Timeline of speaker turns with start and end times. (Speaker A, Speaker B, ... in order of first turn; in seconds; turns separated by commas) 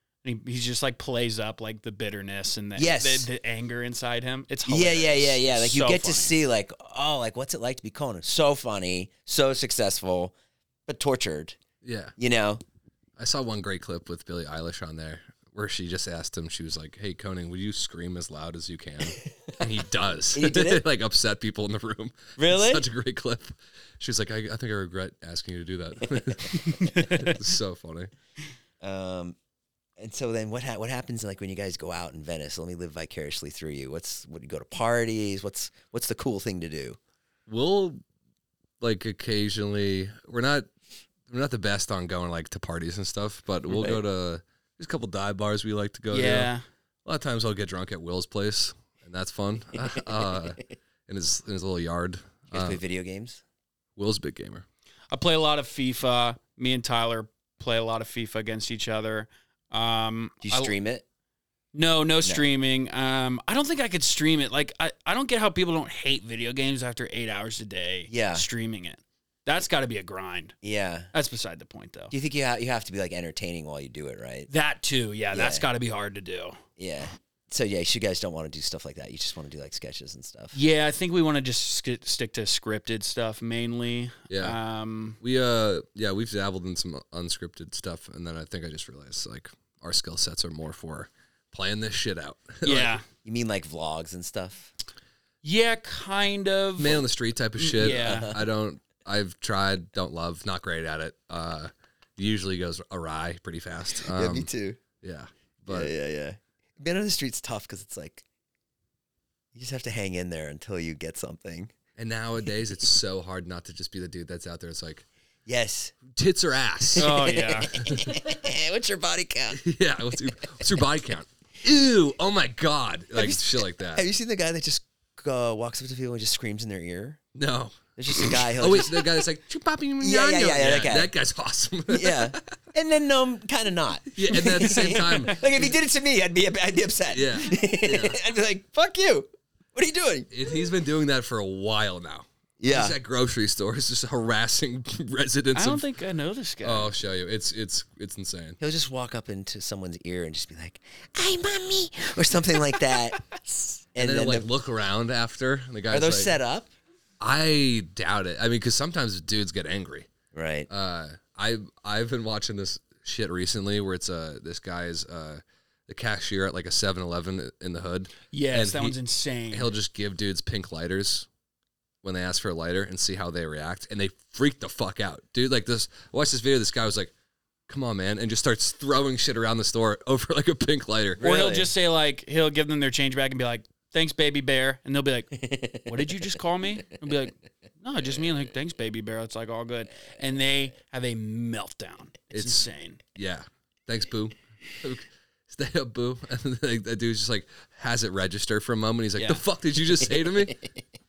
Speaker A: 0.2-6.3, Speaker B: 2.8-3.3, Speaker B: 4.7-10.3, Speaker B: 10.9-11.6, Speaker C: 11.8-12.2, Speaker B: 12.2-12.6, Speaker C: 13.2-28.1, Speaker B: 20.3-20.8, Speaker B: 22.4-22.8, Speaker A: 26.7-27.3, Speaker B: 28.8-29.4, Speaker B: 30.0-37.0, Speaker C: 37.5-38.0, Speaker C: 38.8-40.7, Speaker C: 41.3-46.5, Speaker B: 43.7-44.0, Speaker A: 46.1-46.6, Speaker C: 47.0-52.8, Speaker B: 52.5-53.4, Speaker C: 54.0-54.6, Speaker A: 55.1-60.7, Speaker B: 60.4-61.0, Speaker A: 61.7-70.5, Speaker B: 68.1-68.5, Speaker B: 70.6-71.1, Speaker A: 71.1-72.1, Speaker B: 72.1-74.5, Speaker A: 74.5-76.6, Speaker B: 75.3-75.7, Speaker B: 76.8-80.6, Speaker A: 80.5-85.2, Speaker C: 84.3-84.6, Speaker C: 85.2-93.0, Speaker A: 92.7-93.0, Speaker B: 93.2-94.7, Speaker A: 95.4-97.0, Speaker C: 96.8-104.5, Speaker A: 97.6-98.3, Speaker B: 97.9-98.4, Speaker B: 104.0-104.8, Speaker C: 105.0-105.9, Speaker B: 105.7-108.2, Speaker B: 109.5-111.7, Speaker C: 112.0-115.1, Speaker B: 115.5-116.0, Speaker C: 116.1-118.2, Speaker B: 116.9-119.6, Speaker A: 117.0-117.8, Speaker C: 119.5-124.0, Speaker B: 123.2-127.2, Speaker C: 127.3-132.4, Speaker B: 128.0-129.3, Speaker B: 130.0-131.1, Speaker B: 131.9-140.3, Speaker C: 134.2-135.7, Speaker C: 137.1-138.2, Speaker C: 140.3-145.8, Speaker B: 142.6-143.0, Speaker A: 145.6-146.9, Speaker C: 146.6-148.6, Speaker B: 148.6-154.5, Speaker C: 154.0-156.4, Speaker B: 155.9-156.7, Speaker C: 157.2-160.1, Speaker B: 160.3-160.7, Speaker C: 160.7-169.0, Speaker A: 168.3-169.7, Speaker C: 169.5-171.3, Speaker C: 172.0-177.1, Speaker C: 177.7-181.3, Speaker B: 181.2-181.7, Speaker A: 181.2-193.0, Speaker B: 185.5-187.0, Speaker C: 192.3-200.7, Speaker A: 199.2-199.4